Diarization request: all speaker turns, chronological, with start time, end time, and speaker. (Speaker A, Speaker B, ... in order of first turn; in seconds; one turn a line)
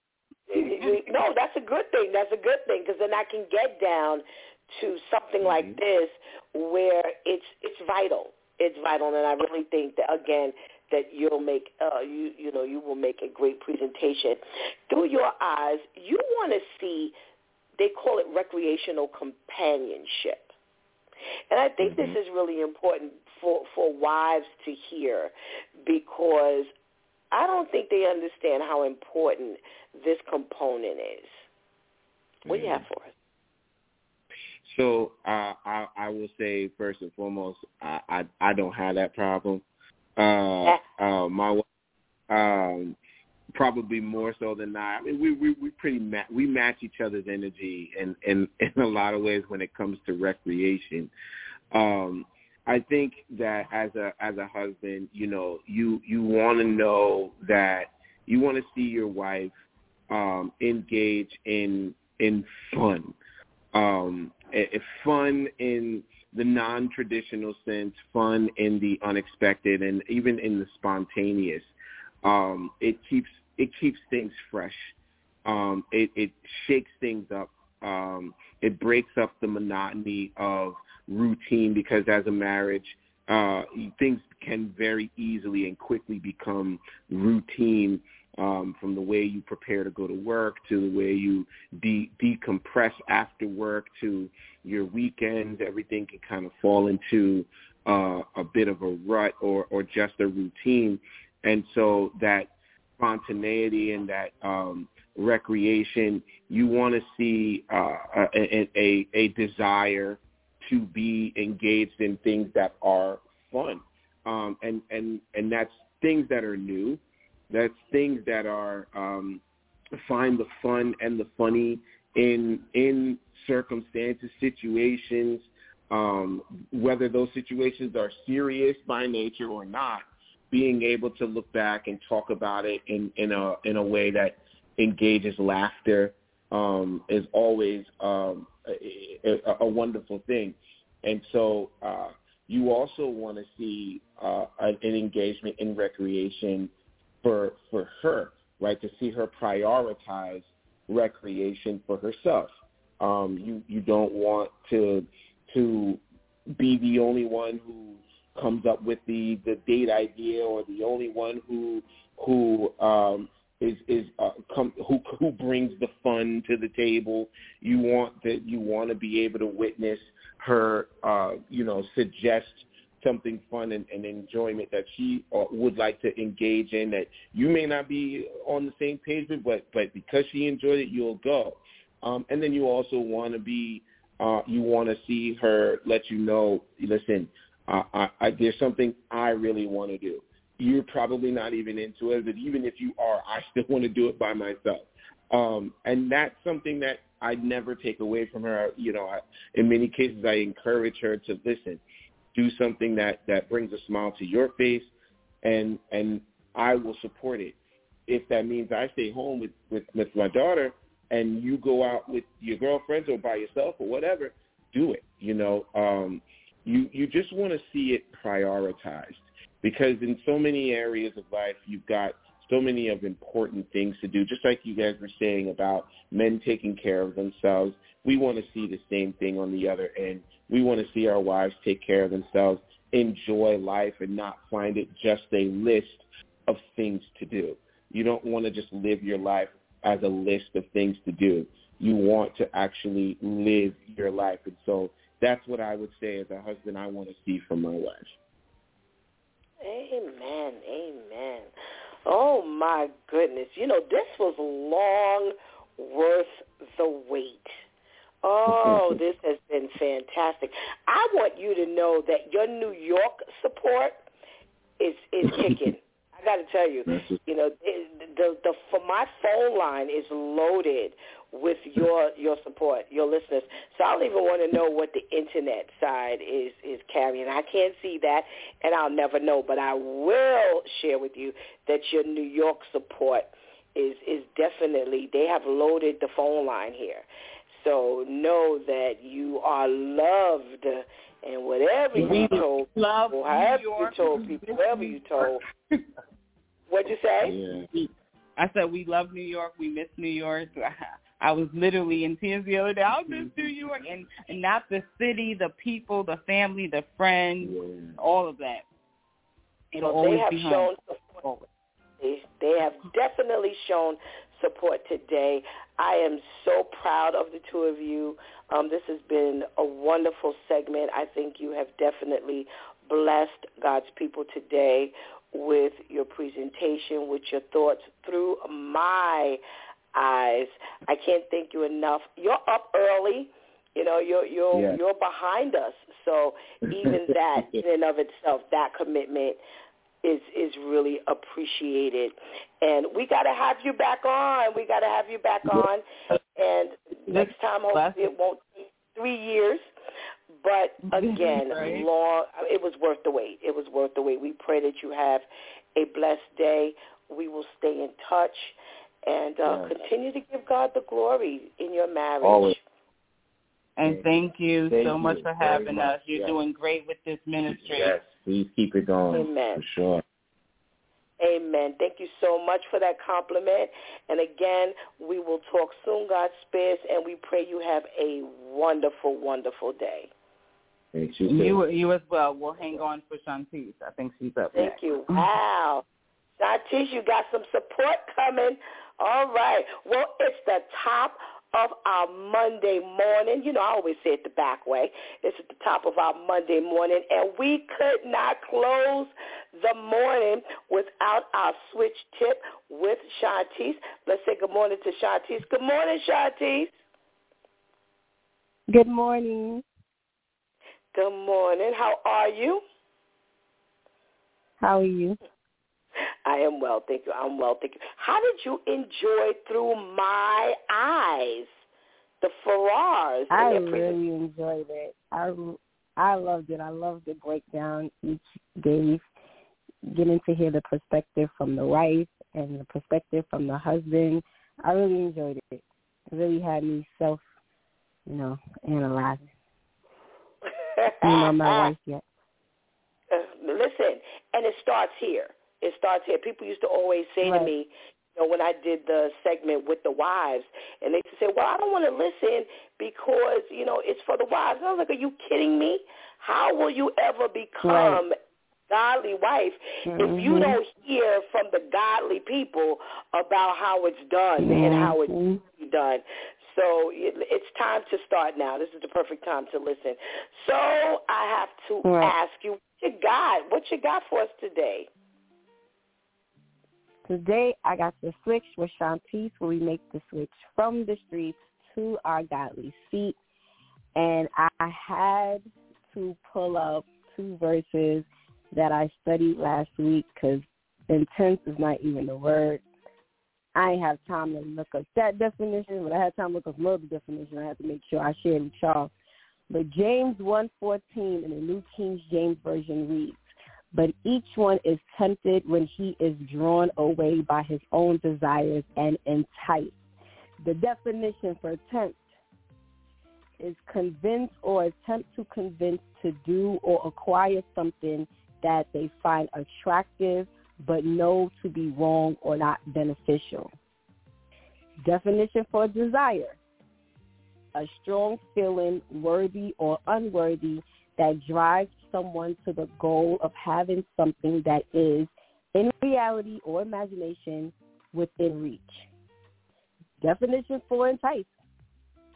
Speaker A: 0.5-17.1
Speaker A: 17.8-20.5
Speaker A: 21.5-25.3
Speaker B: 21.8-22.2
Speaker A: 25.9-26.7
Speaker A: 27.3-31.4
Speaker B: 32.5-32.8
Speaker A: 32.5-33.1
Speaker B: 34.6-39.6
Speaker B: 40.2-41.6
Speaker B: 42.3-43.0
Speaker B: 43.5-51.1
Speaker B: 51.7-59.5
Speaker B: 60.1-63.1
Speaker B: 63.7-71.7
Speaker B: 72.2-75.0
Speaker B: 75.5-119.4
Speaker B: 120.0-146.7
Speaker B: 147.2-156.0
Speaker B: 156.6-201.8
Speaker B: 202.3-204.9
Speaker B: 205.4-207.6
Speaker B: 208.1-248.2
Speaker A: 249.6-251.5
Speaker A: 252.1-257.5
Speaker A: 258.2-263.9
Speaker B: 258.5-259.0
Speaker A: 264.8-295.4
Speaker B: 265.3-265.6
Speaker B: 266.9-267.2
Speaker B: 292.0-292.5
Speaker C: 292.0-295.0
Speaker A: 296.7-297.4
Speaker B: 297.2-297.7
Speaker C: 297.7-308.6
Speaker B: 303.1-303.5
Speaker B: 307.4-308.0
Speaker C: 309.7-311.4
Speaker A: 309.8-311.2
Speaker A: 312.0-329.4
Speaker A: 329.9-339.4
Speaker B: 334.5-334.8
Speaker B: 336.7-337.6
Speaker A: 340.0-345.8
Speaker A: 346.4-349.6
Speaker C: 347.1-348.1
Speaker A: 350.4-355.2
Speaker C: 350.8-351.9
Speaker A: 355.8-362.6
Speaker B: 359.5-359.8
Speaker B: 362.2-362.6
Speaker C: 363.8-368.0
Speaker B: 363.8-366.4
Speaker B: 367.5-370.0
Speaker A: 369.1-369.6
Speaker A: 371.2-380.1
Speaker B: 380.9-381.6
Speaker C: 381.2-385.3
Speaker B: 382.6-382.9
Speaker A: 384.5-385.8
Speaker A: 386.4-406.7
Speaker D: 408.7-409.6
Speaker A: 410.9-412.6
Speaker D: 414.6-415.2
Speaker A: 416.2-421.5
Speaker A: 422.2-424.0
Speaker D: 423.3-429.1
Speaker D: 429.9-437.2
Speaker D: 438.1-439.3
Speaker A: 440.5-441.7
Speaker D: 441.0-442.0
Speaker A: 443.1-458.1
Speaker D: 447.2-447.5
Speaker D: 457.6-458.0
Speaker A: 458.7-474.9
Speaker D: 459.9-460.6
Speaker D: 464.4-465.4
Speaker D: 471.8-472.1
Speaker D: 477.1-483.2
Speaker D: 484.0-492.6
Speaker D: 493.6-498.9
Speaker D: 499.5-509.7
Speaker D: 510.4-512.0
Speaker D: 513.4-523.5
Speaker D: 524.9-526.4
Speaker D: 527.5-538.9
Speaker D: 540.0-541.3